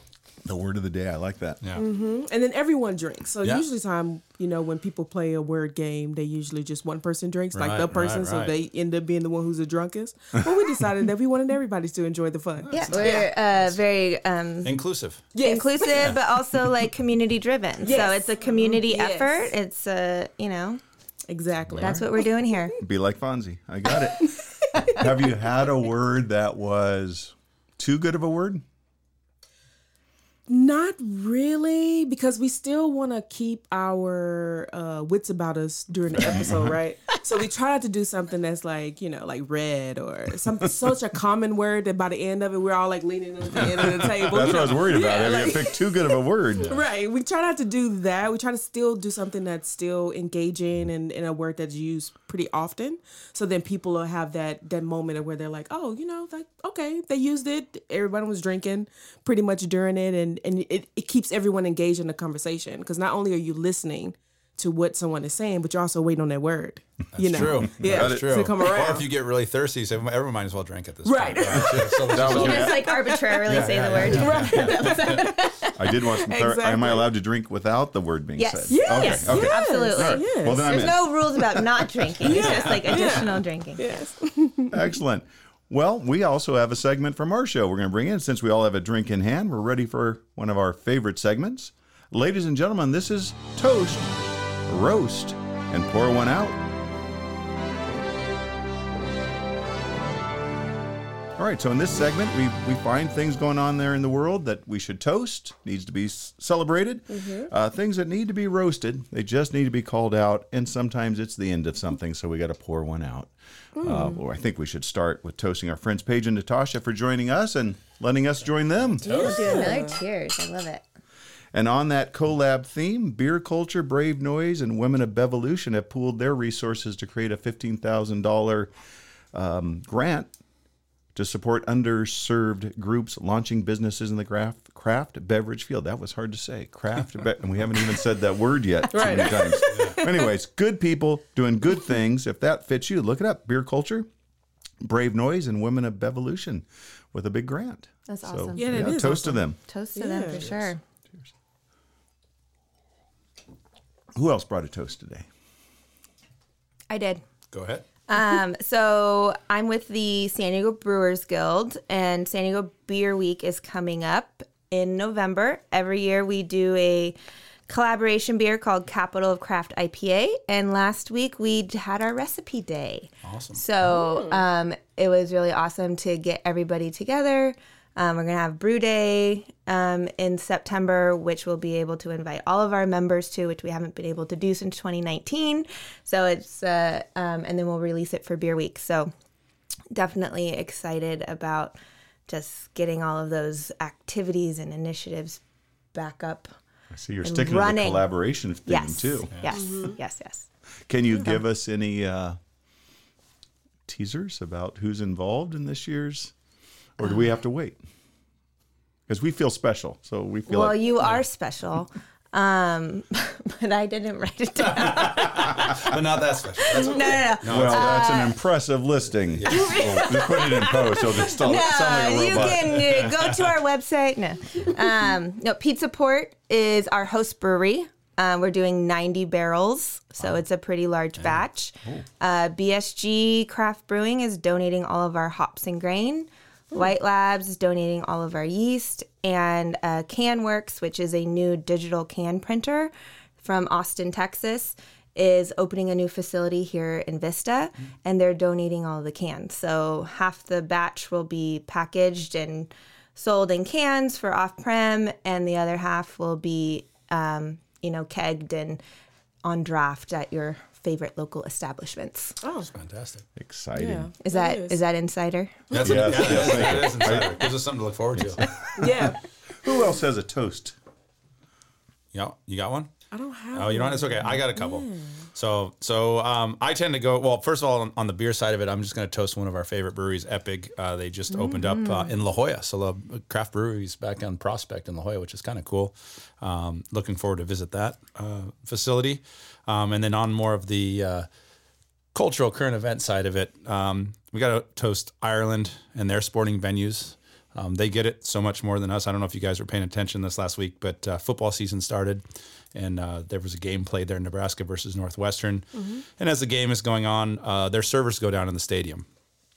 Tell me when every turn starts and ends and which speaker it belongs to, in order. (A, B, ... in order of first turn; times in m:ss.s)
0:00.4-0:01.6 A
0:01.8-0:13.3 B
0:07.5-0:08.5 C
0:12.6-0:13.8 C
0:12.7-0:14.7 D
0:14.6-0:15.3 C
0:15.3-0:16.2 B
0:15.4-0:20.8 D
0:17.8-0:19.5 B
0:21.3-0:22.3 B
0:21.7-0:22.0 A
0:21.8-0:22.8 D
0:22.8-0:28.6 A
0:30.5-1:09.0 B
0:36.2-0:36.7 A
0:43.5-0:46.7 A
0:46.6-0:46.8 C
1:07.1-1:12.9 C
1:07.3-1:08.5 A
1:11.0-1:15.5 B
1:11.5-1:12.8 A
1:12.3-1:15.8 D
1:13.4-1:15.3 C
1:14.1-1:14.3 A
1:15.7-1:21.4 A
1:16.2-1:17.1 B
1:18.4-1:24.0 D
1:18.7-1:21.1 B
1:22.1-1:24.9 B
1:22.2-1:23.2 C
1:24.7-1:36.6 A
1:41.4-1:59.3 A
1:47.1-1:47.5 B
1:53.8-1:54.2 B
1:59.0-1:59.4 C
1:59.0-2:00.8 D
1:59.0-2:00.0 B
2:01.5-2:08.7 A
2:09.3-2:10.3 A
2:11.1-2:24.1 A
2:18.9-2:20.3 B
2:19.7-2:20.0 C
2:24.8-2:29.6 A
2:28.1-2:30.8 D
2:28.6-2:29.4 B
2:29.9-2:30.5 B
2:34.1-2:35.2 A
2:36.9-2:37.2 D
2:37.5-2:37.8 C
2:38.1-2:47.2 D
2:47.7-3:09.1 D
2:53.2-2:53.6 C
2:53.9-2:54.4 B
3:09.9-3:11.8 D
3:12.3-3:15.4 D
3:15.9-3:16.5 D
3:16.9-3:19.3 A
3:17.2-3:18.1 D
3:18.6-3:20.5 D
3:19.5-3:20.0 B
3:20.9-3:22.4 A
3:23.9-3:26.3 A
3:27.0-3:27.8 A
3:29.1-3:30.9 A
3:30.5-3:35.9 D
3:34.6-3:38.0 C
3:36.6-3:38.4 D
3:37.4-3:42.8 A
3:39.4-3:39.8 C
3:39.5-4:18.8 D
3:42.3-3:43.5 C
4:19.4-4:22.4 D
4:22.4-4:22.7 B
4:22.7-4:23.2 C
4:23.4-4:24.1 A
4:23.7-4:24.8 B
4:24.2-4:25.6 D
4:25.7-4:26.1 B
4:25.7-4:28.5 C
4:25.8-4:27.4 A
4:28.2-4:30.7 A
4:28.8-4:29.2 B
4:32.1-4:32.9 C
4:33.1-4:35.2 B
4:33.5-4:51.3 C
4:41.4-4:42.1 D
4:52.1-5:02.2 C
5:02.7-5:09.0 C